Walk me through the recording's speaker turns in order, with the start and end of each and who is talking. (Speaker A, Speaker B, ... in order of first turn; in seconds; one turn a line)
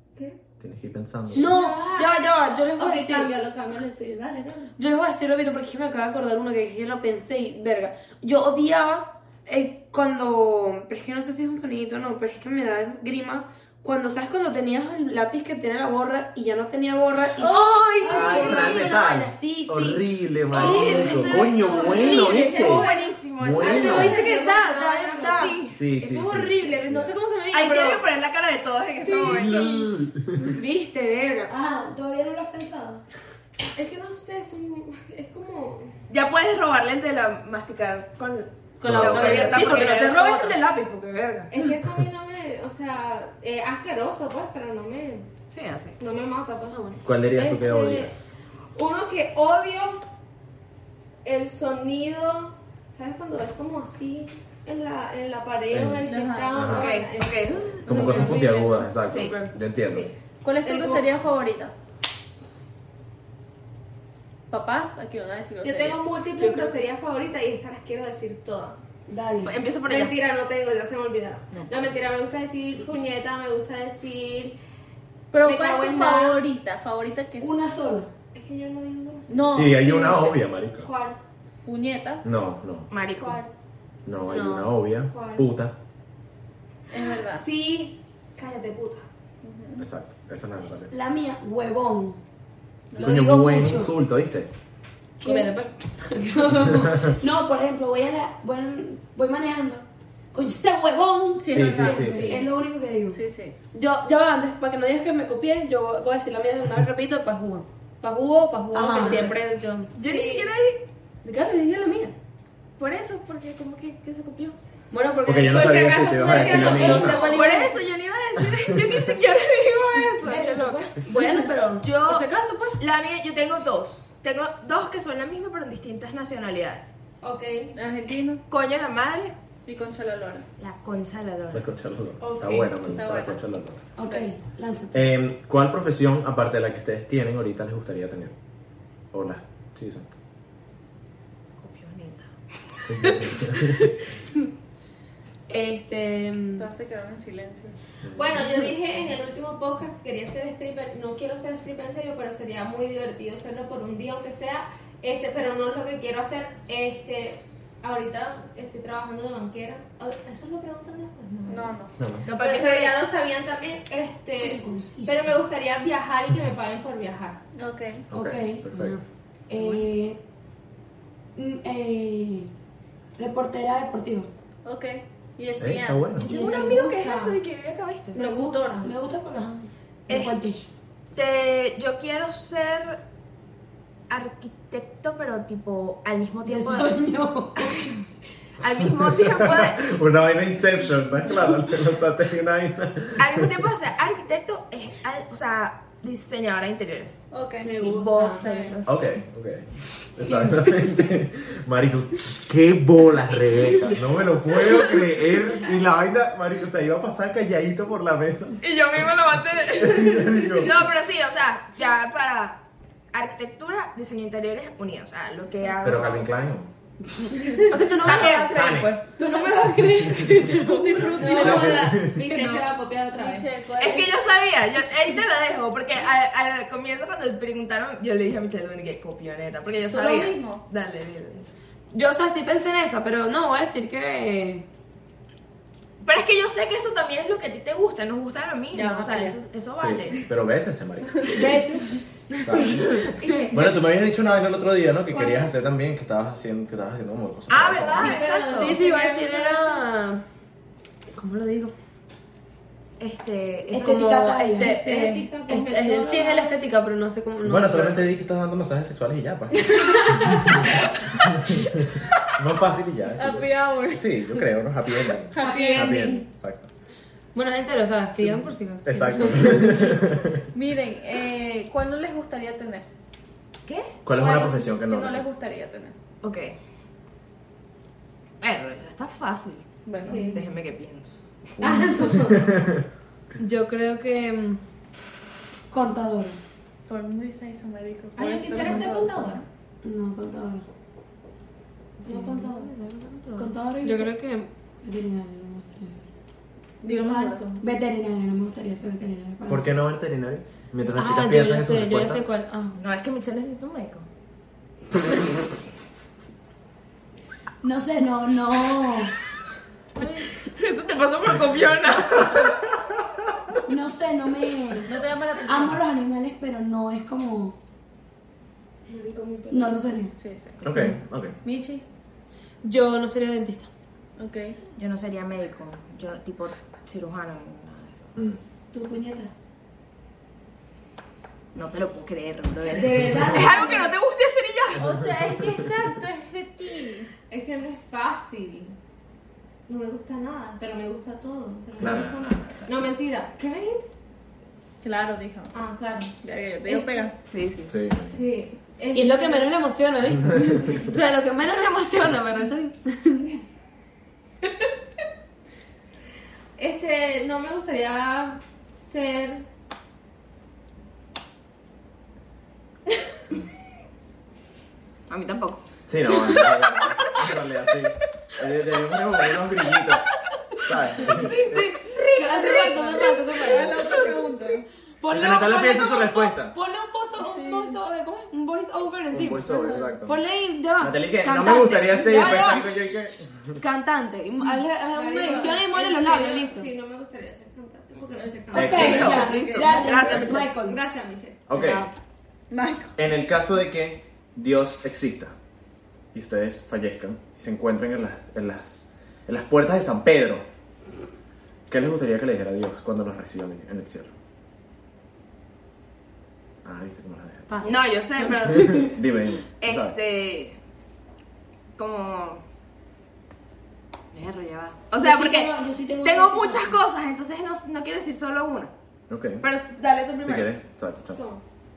Speaker A: 0.6-1.6
Speaker B: 1.3-4.7
Speaker C: 1.3-3.4
Speaker C: 4.8-22.4
Speaker D: 17.4-18.7
Speaker E: 18.0-18.9
Speaker A: 18.1-24.3
Speaker E: 20.5-22.2
Speaker B: 21.6-25.5
Speaker D: 21.8-24.2
Speaker C: 23.6-28.0
Speaker D: 25.2-25.8
Speaker A: 25.7-27.2
Speaker D: 27.5-29.8
Speaker C: 29.1-29.9
Speaker A: 29.2-30.5
Speaker C: 30.4-31.5
Speaker E: 31.5-33.0
Speaker B: 33.8-35.9
Speaker D: 36.1-41.5
Speaker C: 38.8-40.7
Speaker A: 38.8-39.8
Speaker B: 41.5-45.3
Speaker D: 45.5-46.0
Speaker B: 46.0-48.1
Speaker A: 47.0-48.3
Speaker B: 48.8-50.0
Speaker B: 51.2-59.0
Speaker A: 55.7-56.9
Speaker F: 56.0-56.8
Speaker D: 56.7-58.1
Speaker A: 57.9-60.1
Speaker F: 57.9-58.5
Speaker D: 59.0-59.5
Speaker C: 59.1-59.5
Speaker B: 59.9-61.1
Speaker F: 60.4-61.7
Speaker F: 64.5-66.8
Speaker B: 65.6-68.8
Speaker E: 69.1-69.5
Speaker D: 69.4-70.2
Speaker B: 69.9-74.6
Speaker D: 71.5-71.9
Speaker F: 75.3-77.5
Speaker B: 75.4-76.4
Speaker E: 77.4-78.1
Speaker B: 78.3-81.2
Speaker F: 79.3-80.1
Speaker A: 79.5-80.9
Speaker F: 81.7-82.2
Speaker A: 82.2-82.9
Speaker D: 82.9-83.4
Speaker B: 83.2-83.5
Speaker A: 84.1-85.8
Speaker C: 84.3-84.8
Speaker B: 85.1-85.5
Speaker F: 86.9-87.5
Speaker B: 86.9-89.1
Speaker F: 89.4-89.8
Speaker A: 89.8-90.9
Speaker E: 90.9-92.2
Speaker F: 92.9-93.3
Speaker E: 93.0-93.9
Speaker A: 93.0-94.5
Speaker E: 95.2-95.5
Speaker C: 95.2-96.5
Speaker E: 96.1-103.2
Speaker F: 101.4-102.2
Speaker A: 101.5-102.4
Speaker B: 102.0-102.5
Speaker F: 103.1-103.5
Speaker C: 103.7-109.9
Speaker E: 108.7-109.3
Speaker D: 110.0-110.9
Speaker B: 110.0-110.5
Speaker C: 111.2-112.2
Speaker D: 112.8-114.6
Speaker C: 114.9-117.8
Speaker A: 115.2-117.3
Speaker B: 115.5-117.6
Speaker D: 116.5-126.9
Speaker E: 120.2-121.2
Speaker C: 121.1-122.8
Speaker B: 127.2-127.7
Speaker F: 127.8-128.4
Speaker D: 128.5-129.4
Speaker F: 129.7-130.5
Speaker D: 130.6-131.7
Speaker A: 131.5-133.8
Speaker C: 132.2-132.7
Speaker F: 132.8-133.4
Speaker E: 134.0-135.1
Speaker F: 134.0-134.3
Speaker A: 134.9-138.4
Speaker A: 139.1-140.2
Speaker D: 141.6-142.3
Speaker A: 142.9-143.9
Speaker C: 145.5-146.7
Speaker F: 146.6-147.8
Speaker A: 148.0-148.6
Speaker B: 148.1-161.7
Speaker F: 161.5-162.0
Speaker A: 162.0-162.3
Speaker D: 162.2-162.9
Speaker B: 162.3-167.4
Speaker E: 164.4-165.4
Speaker F: 167.6-168.1
Speaker A: 168.1-169.0
Speaker E: 168.1-168.7
Speaker C: 168.7-169.0
Speaker E: 169.5-170.2
Speaker E: 171.4-172.5
Speaker E: 173.2-174.3
Speaker F: 174.7-176.2
Speaker A: 175.6-176.4
Speaker E: 176.2-176.8
Speaker B: 176.2-177.4
Speaker D: 176.3-178.2
Speaker B: 178.1-178.9
Speaker F: 178.2-178.9
Speaker E: 178.8-180.7
Speaker D: 180.1-180.4
Speaker D: 181.1-183.0
Speaker D: 184.1-187.0
Speaker E: 186.4-187.8
Speaker D: 187.6-188.0
Speaker D: 188.6-189.9
Speaker A: 189.2-193.5
Speaker D: 193.2-198.9
Speaker F: 197.3-197.7
Speaker B: 197.7-198.3
Speaker C: 197.8-198.4
Speaker F: 198.4-198.8
Speaker A: 198.8-209.0
Speaker E: 200.2-200.9
Speaker D: 208.6-216.4
Speaker A: 209.7-210.8
Speaker A: 215.8-216.7
Speaker B: 217.4-217.7
Speaker C: 217.6-221.7
Speaker A: 218.0-219.1
Speaker D: 218.0-218.6
Speaker F: 220.6-222.6
Speaker B: 221.1-223.5
Speaker A: 221.4-222.3
Speaker F: 223.1-224.2
Speaker D: 223.8-231.5
Speaker F: 229.9-230.6
Speaker C: 231.9-234.7
Speaker D: 236.0-240.2
Speaker F: 238.7-239.4
Speaker A: 239.8-241.6
Speaker E: 241.3-241.9
Speaker A: 242.4-248.2
Speaker B: 243.2-243.7
Speaker B: 245.1-245.5
Speaker D: 247.5-248.8
Speaker B: 247.8-249.9
Speaker C: 248.5-250.2
Speaker C: 251.2-251.7
Speaker D: 253.0-254.1
Speaker E: 253.7-254.8
Speaker C: 253.7-258.1
Speaker B: 254.6-256.7
Speaker A: 257.4-260.6
Speaker B: 259.8-260.6
Speaker A: 261.2-261.8
Speaker A: 262.4-266.7
Speaker F: 263.2-264.5
Speaker F: 265.3-266.1
Speaker B: 265.3-266.2
Speaker C: 267.4-270.0
Speaker A: 268.8-270.5
Speaker F: 270.5-272.9
Speaker D: 273.7-274.0
Speaker A: 274.1-275.2
Speaker F: 274.1-275.9
Speaker D: 276.2-276.6
Speaker D: 278.4-281.2
Speaker F: 279.9-280.4
Speaker B: 280.1-280.4
Speaker A: 281.6-282.8
Speaker B: 281.6-282.6
Speaker C: 283.4-284.6
Speaker E: 285.7-286.4
Speaker F: 286.9-289.5
Speaker B: 288.2-289.4
Speaker E: 289.8-290.7
Speaker C: 292.0-294.5
Speaker B: 292.1-292.7
Speaker E: 293.4-294.1
Speaker E: 294.8-296.1
Speaker F: 296.8-297.6
Speaker B: 296.8-297.6
Speaker E: 297.6-299.7
Speaker A: 299.5-302.2
Speaker C: 300.9-302.8
Speaker D: 302.8-304.1
Speaker E: 307.6-309.1
Speaker D: 310.3-312.5
Speaker E: 313.7-317.6
Speaker F: 314.8-315.8
Speaker B: 318.9-319.8
Speaker E: 319.5-320.1
Speaker F: 320.2-320.7
Speaker A: 320.6-321.4
Speaker F: 321.4-321.8
Speaker C: 322.6-323.7
Speaker F: 324.2-324.6
Speaker D: 324.8-328.1
Speaker A: 328.1-328.4
Speaker E: 328.7-329.3
Speaker D: 331.5-334.9
Speaker E: 332.7-333.8
Speaker F: 333.5-333.9
Speaker F: 334.8-337.1
Speaker A: 334.9-335.7
Speaker B: 337.3-338.8
Speaker B: 339.7-343.9
Speaker A: 341.8-342.3
Speaker D: 341.8-342.7
Speaker F: 344.8-345.6
Speaker B: 345.5-346.1
Speaker F: 346.2-347.2
Speaker D: 347.1-347.7
Speaker A: 347.7-348.2
Speaker B: 348.1-349.5
Speaker C: 348.9-353.3
Speaker B: 356.6-359.5
Speaker D: 365.1-365.6
Speaker A: 365.9-370.1
Speaker A: 370.6-371.7
Speaker C: 371.0-374.1
Speaker F: 372.3-374.7
Speaker C: 375.0-383.0
Speaker A: 375.1-376.6
Speaker F: 377.2-377.8
Speaker A: 379.1-380.2
Speaker F: 379.4-380.0
Speaker A: 380.8-383.6
Speaker C: 383.6-386.7
Speaker B: 384.9-389.4
Speaker F: 385.2-385.5
Speaker F: 388.2-389.8
Speaker E: 388.5-390.8
Speaker A: 388.6-389.4
Speaker D: 388.7-390.5
Speaker C: 389.0-390.4
Speaker B: 390.1-391.4
Speaker A: 391.5-391.9
Speaker D: 391.6-391.9
Speaker C: 391.6-391.9
Speaker F: 392.5-393.0
Speaker A: 393.0-395.4
Speaker A: 396.1-400.4
Speaker A: 401.7-404.1
Speaker A: 406.6-407.5
Speaker C: 407.5-408.9
Speaker D: 407.6-409.0
Speaker A: 408.6-409.9
Speaker D: 409.5-410.6
Speaker D: 411.8-412.4
Speaker D: 414.1-418.7
Speaker E: 415.0-416.8
Speaker A: 419.1-419.5
Speaker D: 419.4-420.5
Speaker A: 420.2-421.2
Speaker B: 421.1-421.4